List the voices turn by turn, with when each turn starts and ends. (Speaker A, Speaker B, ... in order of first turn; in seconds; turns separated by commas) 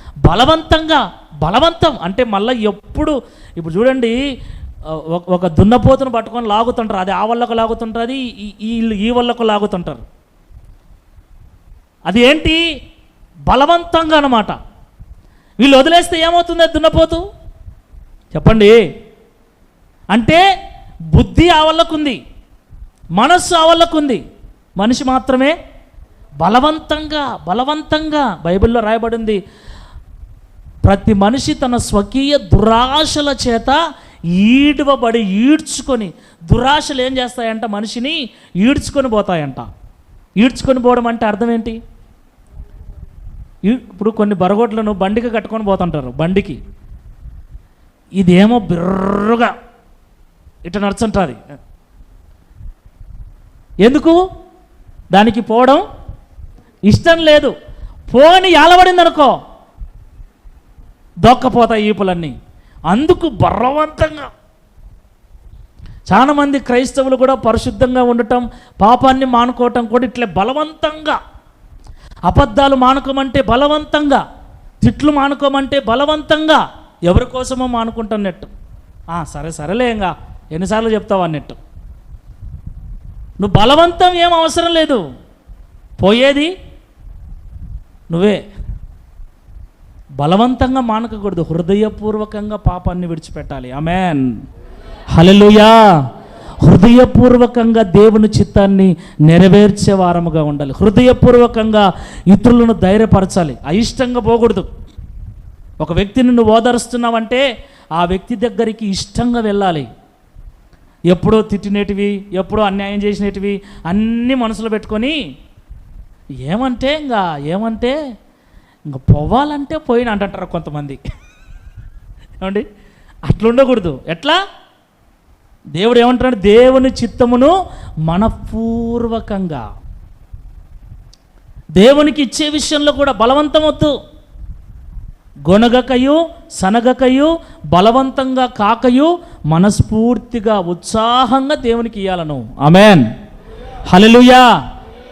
Speaker A: 0.2-4.2, Speaker A: 4.9-10.1, Speaker A: 12.1-12.6, Speaker A: 13.5-14.6, Speaker A: 15.6-17.2, Speaker A: 18.3-18.8, Speaker A: 20.1-20.4, Speaker A: 21.1-22.2, Speaker A: 23.2-24.2, Speaker A: 24.8-25.6, Speaker A: 26.4-29.4, Speaker A: 30.8-33.8, Speaker A: 34.3-39.7, Speaker A: 40.4-41.8, Speaker A: 43.7-46.6, Speaker A: 48.2-49.5, Speaker A: 50.6-51.4, Speaker A: 53.8-54.2, Speaker A: 55.1-55.8, Speaker A: 56.9-57.5, Speaker A: 58.1-59.4, Speaker A: 61.2-62.4, Speaker A: 62.9-64.3, Speaker A: 66.1-71.2, Speaker A: 72.3-74.2, Speaker A: 74.8-78.5, Speaker A: 79.1-81.6, Speaker A: 83.4-85.0, Speaker A: 86.0-86.5, Speaker A: 88.1-88.4, Speaker A: 90.2-94.4, Speaker A: 95.1-95.9, Speaker A: 96.6-104.7, Speaker A: 105.8-107.4, Speaker A: 108.0-109.9, Speaker A: 111.1-115.2, Speaker A: 116.5-118.0, Speaker A: 118.9-121.0, Speaker A: 122.4-122.7, Speaker A: 123.3-124.4, Speaker A: 125.7-127.5, Speaker A: 128.1-129.7, Speaker A: 131.8-133.9, Speaker A: 135.5-143.0, Speaker A: 143.9-144.5